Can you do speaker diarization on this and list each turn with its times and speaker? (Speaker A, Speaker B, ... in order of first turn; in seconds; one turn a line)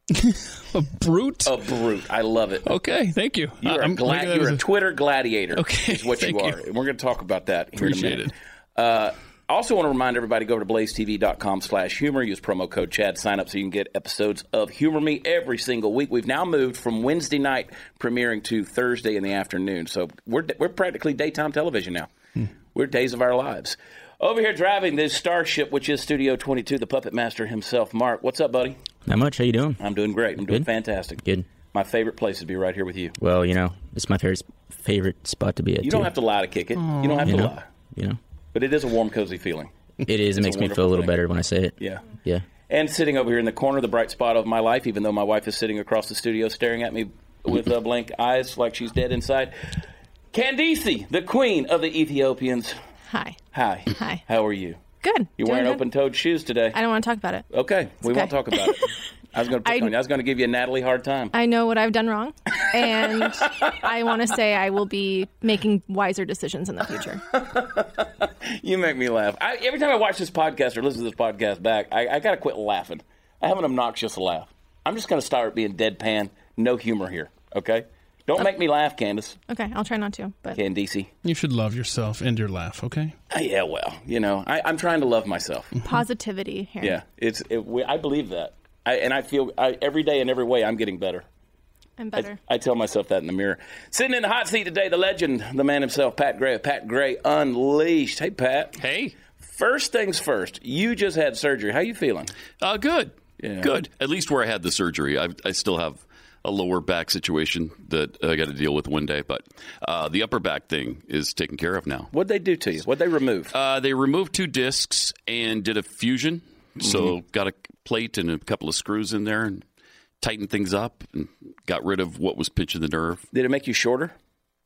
Speaker A: 0.1-1.6
Speaker B: 1.4-2.8
Speaker A: 2.6-4.6
Speaker B: 3.6-22.1
Speaker A: 5.5-6.6
Speaker C: 7.8-8.3
Speaker B: 22.7-28.8
Speaker D: 29.1-29.8
Speaker B: 29.8-31.2
Speaker D: 31.2-31.5
Speaker B: 31.7-33.1
Speaker D: 33.2-36.1
Speaker B: 35.8-37.7
Speaker A: 36.8-37.4
Speaker D: 37.2-38.2
Speaker B: 38.5-39.7
Speaker D: 40.0-42.4
Speaker B: 40.4-41.1
Speaker B: 41.8-42.0
Speaker B: 42.7-52.8
Speaker E: 53.1-53.4
Speaker B: 53.5-54.8
Speaker E: 53.9-54.2
Speaker E: 55.0-55.8
Speaker B: 55.4-56.8
Speaker E: 56.7-57.5
Speaker B: 57.5-61.3
Speaker E: 58.0-58.9
Speaker E: 59.7-59.9
Speaker E: 61.3-67.2
Speaker B: 63.1-63.8
Speaker B: 67.3-79.4
Speaker E: 79.5-80.6
Speaker B: 80.5-81.1
Speaker A: 81.2-83.2
Speaker B: 83.3-85.7
Speaker E: 85.8-87.0
Speaker B: 86.8-91.2
Speaker E: 92.0-92.4
Speaker B: 92.1-98.8
Speaker C: 98.8-99.1
Speaker B: 99.4-102.3
Speaker C: 102.6-112.1
Speaker B: 103.4-103.7
Speaker B: 112.1-113.5
Speaker C: 113.5-119.6
Speaker B: 116.8-117.1
Speaker C: 120.2-123.2
Speaker B: 123.3-124.1